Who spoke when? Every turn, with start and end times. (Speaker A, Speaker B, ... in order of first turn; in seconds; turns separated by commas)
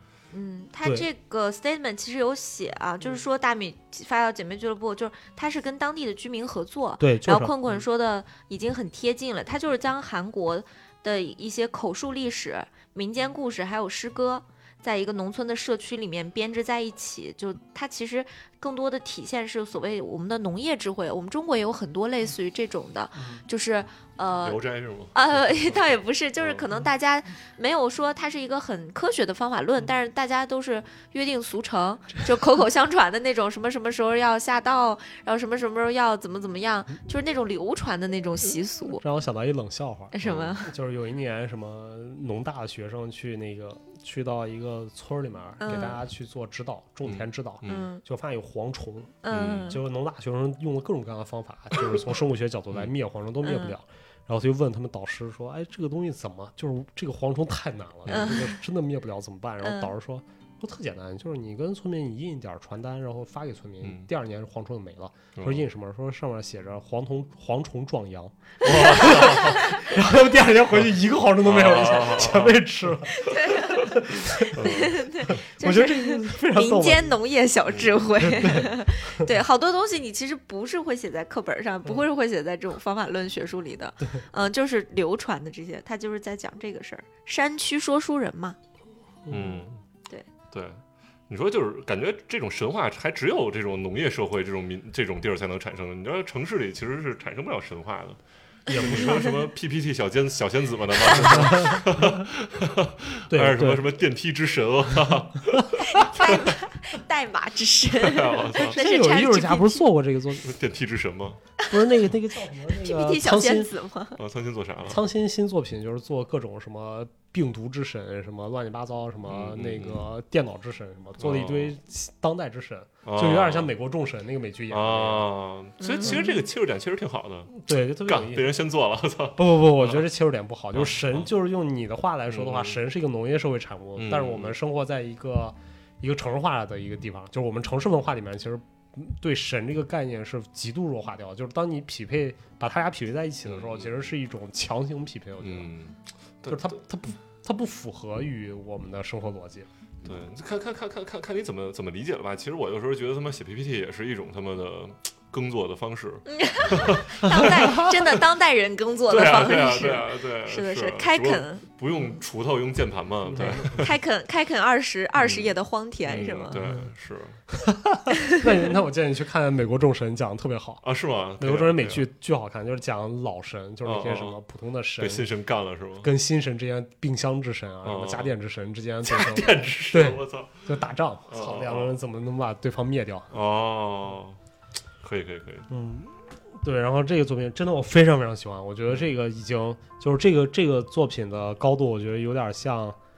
Speaker A: 0.3-24.6, Speaker B: 0.8-1.1, Speaker B: 7.0-7.6, Speaker C: 24.4-26.7, Speaker A: 25.1-39.0, Speaker B: 39.0-77.2, Speaker A: 40.1-40.7, Speaker C: 40.2-40.6, Speaker A: 45.6-46.0, Speaker C: 47.0-47.9, Speaker A: 47.6-48.0, Speaker A: 49.2-49.8, Speaker C: 49.3-49.8, Speaker A: 53.4-53.8, Speaker C: 58.1-58.4, Speaker A: 58.1-58.6, Speaker A: 59.6-59.9, Speaker C: 63.8-64.1, Speaker C: 65.4-65.7, Speaker C: 68.6-69.8, Speaker A: 68.7-69.9, Speaker C: 71.4-72.7, Speaker A: 73.1-88.6, Speaker C: 74.5-75.1, Speaker C: 77.7-78.1, Speaker B: 78.2-79.3, Speaker B: 89.2-89.7, Speaker C: 89.3-89.8, Speaker C: 90.5-106.6, Speaker B: 98.7-99.2, Speaker B: 101.1-102.2, Speaker B: 103.3-103.9, Speaker B: 105.5-106.0, Speaker A: 105.8-109.9, Speaker C: 108.0-108.8, Speaker B: 108.6-110.6, Speaker C: 110.4-111.4, Speaker B: 111.7-113.7, Speaker A: 112.7-114.2, Speaker C: 114.2-115.0, Speaker B: 114.9-125.3, Speaker C: 119.3-120.1, Speaker C: 121.2-121.8, Speaker C: 123.0-123.7, Speaker C: 124.7-130.0, Speaker A: 125.8-126.4, Speaker B: 127.5-128.5, Speaker B: 129.4-145.7, Speaker C: 130.7-131.3, Speaker C: 132.3-132.8, Speaker C: 134.0-134.6, Speaker C: 143.5-144.1, Speaker C: 145.4-146.7, Speaker B: 146.5-149.7, Speaker C: 150.0-158.2, Speaker A: 156.3-161.7, Speaker B: 157.2-157.9, Speaker C: 159.1-164.0, Speaker B: 163.3-163.9, Speaker A: 163.7-166.6, Speaker C: 165.2-165.5, Speaker C: 166.1-167.4, Speaker B: 166.5-166.9, Speaker B: 167.5-170.8, Speaker C: 170.8-172.1, Speaker B: 171.4-175.3, Speaker C: 173.8-174.4, Speaker C: 175.0-176.1, Speaker B: 176.0-183.3, Speaker C: 177.8-178.3, Speaker C: 179.1-180.7, Speaker C: 181.3-182.0, Speaker C: 183.3-184.4, Speaker C: 185.0-185.7, Speaker B: 185.7-193.0